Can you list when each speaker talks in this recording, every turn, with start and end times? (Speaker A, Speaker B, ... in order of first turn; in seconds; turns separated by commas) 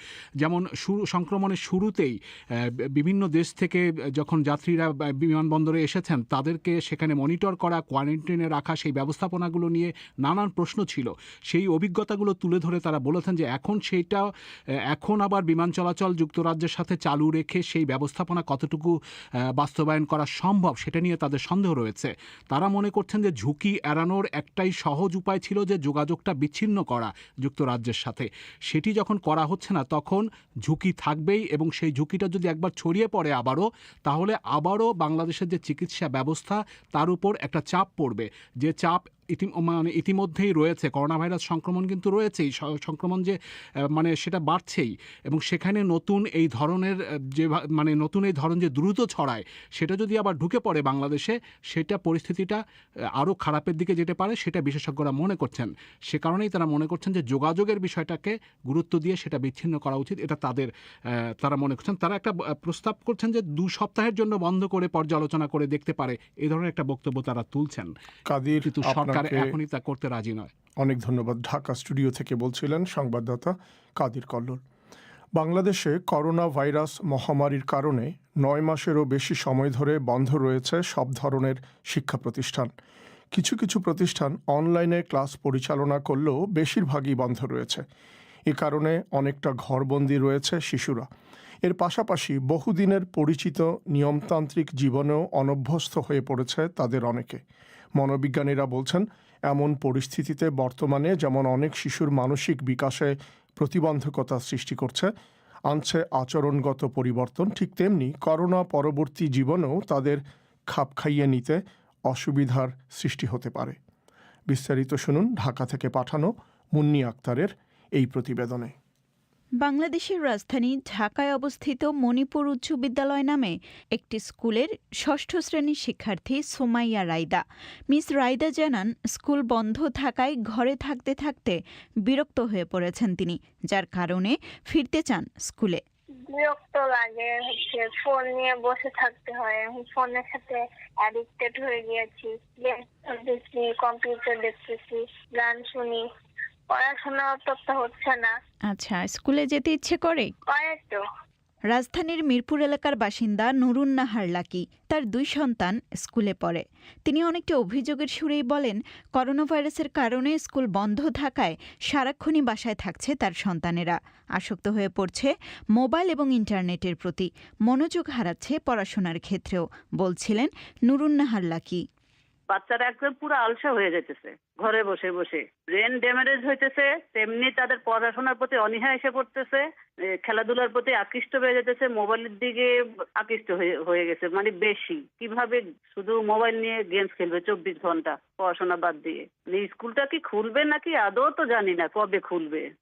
Speaker A: 0.4-14.2, Speaker A: 14.9-18.9, Speaker A: 19.6-43.4, Speaker A: 43.9-52.6, Speaker A: 53.2-67.9, Speaker B: 68.3-69.5, Speaker A: 68.6-70.5, Speaker B: 70.8-74.6, Speaker B: 75.3-82.7, Speaker B: 83.3-87.8, Speaker B: 88.5-91.1, Speaker B: 91.6-97.4, Speaker B: 98.0-105.1, Speaker B: 105.7-113.8, Speaker B: 114.5-118.7, Speaker C: 119.6-135.8, Speaker D: 136.3-146.0, Speaker D: 146.7-148.3, Speaker C: 148.7-150.3, Speaker D: 150.5-151.0, Speaker C: 151.7-171.8, Speaker E: 172.5-179.7, Speaker E: 180.2-192.7